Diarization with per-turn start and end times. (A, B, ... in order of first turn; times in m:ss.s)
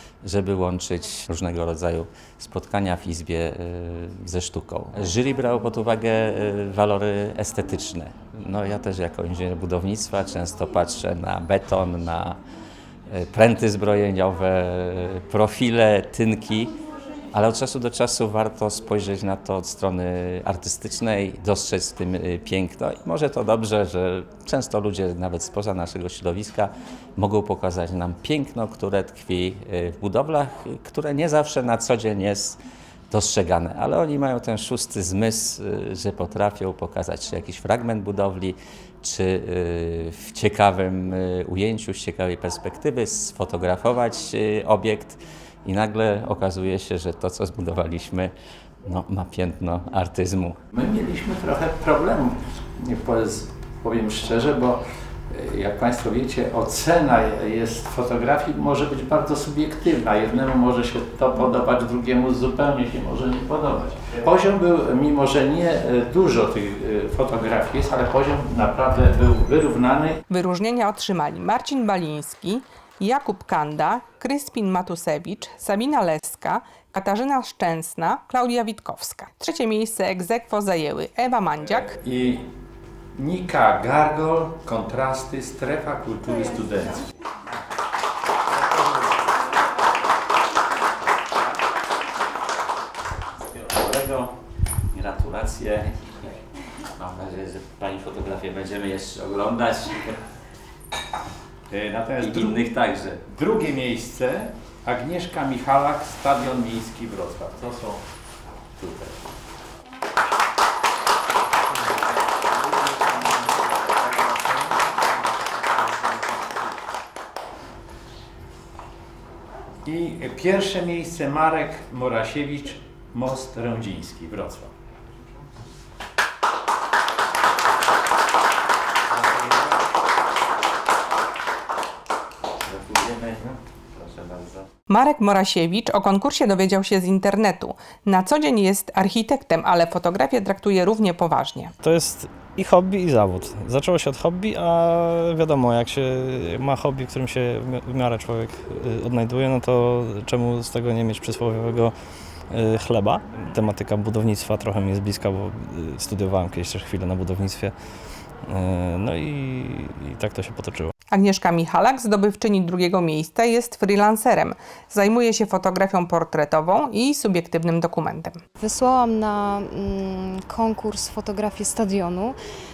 0:00.2-0:12.4 A
0:13.1-0:16.7 A
0:17.3-0:32.6 A
0:33.1-0:48.3 A
0:48.8-0:50.6 A
0:50.7-1:10.2 B
1:10.3-1:22.0 C
1:22.0-1:22.5 B
1:23.1-1:27.0 B
1:33.7-1:34.3 A
1:34.9-1:36.2 A
1:37.0-1:40.1 A
1:41.7-1:48.0 B
1:42.2-1:43.2 A
1:59.8-2:04.7 B
2:12.7-2:14.6 A
2:14.9-2:21.7 C
2:21.8-2:31.9 D
2:32.5-2:37.7 D
2:38.5-2:40.9 D
2:41.1-2:48.4 C
2:48.6-2:52.4 E